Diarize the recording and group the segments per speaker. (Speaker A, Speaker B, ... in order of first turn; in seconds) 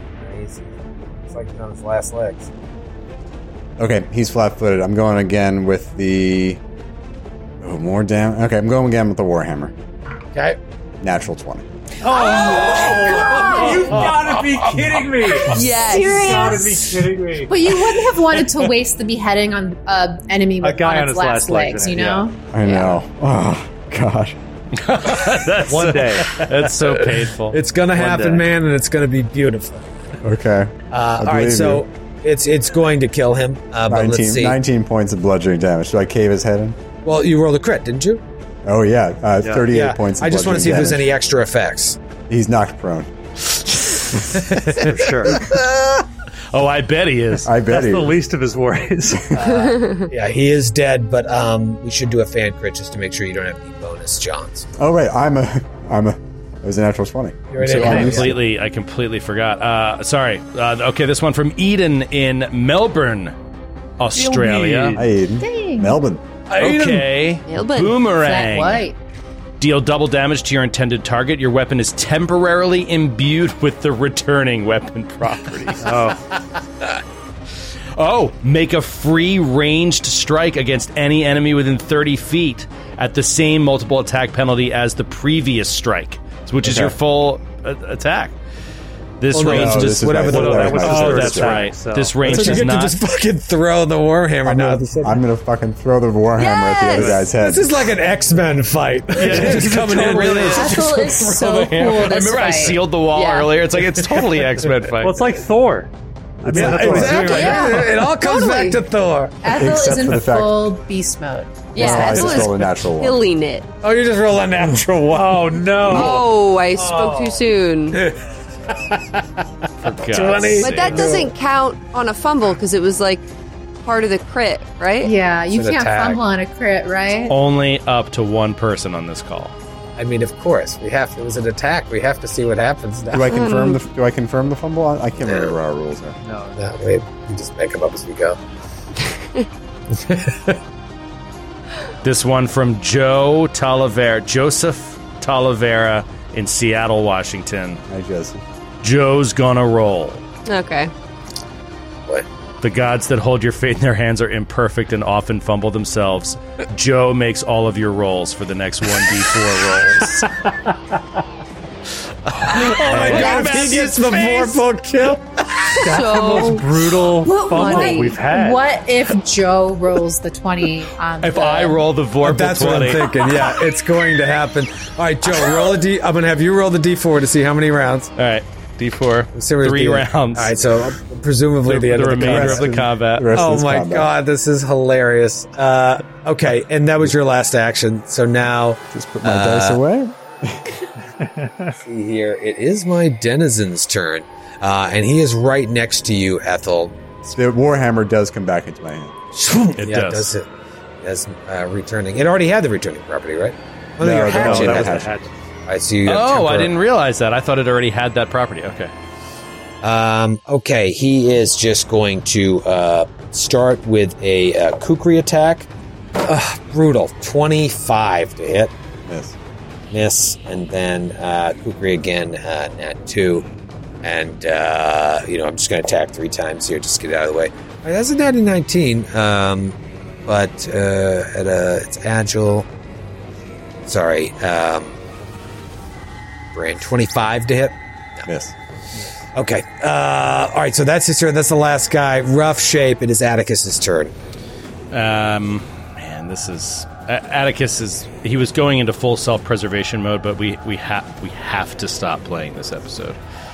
Speaker A: 0.2-0.7, 1.3-2.5, 12.2-14.1, 26.3-29.8, 30.9-34.5, 37.0-38.2, 39.7-42.0, 44.5-45.6, 49.3-54.7, 57.5-58.3, 66.5-67.1, 89.3-91.5, 92.2-95.2, 97.0-102.2, 103.8-104.3, 106.5-109.4, 113.8-116.2, 117.9-118.2, 119.8-121.3, 125.5-126.2, 130.0-133.3, 135.2-135.5, 136.6-138.4, 139.9-140.6, 162.3-165.8, 172.2-178.1, 179.3-182.7, 183.3-189.8, 191.8-197.0, 199.3-200.5, 201.0-205.1, 205.7-206.7, 209.8-215.7, 216.2-218.7, 219.9-223.4, 224.0-232.7, 233.8-234.9, 236.5-238.3, 239.3-244.1
Speaker B: 3.8-6.6, 7.6-9.7, 11.0-11.6, 22.5-24.4, 30.2-31.8, 33.9-36.8, 38.6-41.1, 42.3-43.1, 47.4-48.1, 54.8-58.4, 65.0-66.2, 86.6-86.9, 89.4-91.7, 94.4-97.9, 106.5-107.3, 109.5-110.6, 111.8-113.2, 133.1-136.2, 147.9-148.4, 182.2-184.1, 188.9-190.7, 197.3-199.1, 204.0-205.1, 219.1-219.3, 238.2-238.5
Speaker C: 12.0-17.7, 20.6-22.3, 25.7-26.4, 27.9-28.4, 39.4-39.7, 44.9-45.4, 47.6-49.4, 57.8-58.1, 64.1-65.1, 75.8-76.2, 90.2-92.6, 99.3-100.4, 105.0-107.9, 111.9-112.2, 115.1-117.4, 120.8-121.1, 136.2-136.6, 162.9-163.3, 165.8-168.7, 191.2-191.7, 204.2-205.3
Speaker D: 13.2-13.7, 15.8-16.8, 17.5-22.4, 65.4-66.0, 68.1-69.0, 100.4-102.8, 107.3-108.8, 109.4-112.1, 125.0-127.3, 167.2-171.8
Speaker E: 15.5-16.6, 22.6-22.9, 49.7-50.0, 67.5-68.0, 96.4-97.2, 103.1-103.5, 107.4-107.7, 111.7-113.7, 115.8-118.0, 120.6-123.3, 123.8-125.1, 133.3-133.8, 150.4-150.9, 163.2-163.5, 165.8-166.6, 167.7-168.0
Speaker F: 24.8-27.6, 46.5-47.5, 57.7-63.3, 64.0-65.0, 66.6-68.9, 69.6-76.0, 78.0-88.3, 89.2-93.0, 99.1-105.3, 119.8-121.0, 127.3-129.5, 142.0-147.8, 148.8-150.2, 152.6-160.3, 162.3-164.6, 171.2-173.2, 178.2-180.5, 181.6-183.3, 199.8-200.3, 206.1-208.9, 244.9-253.2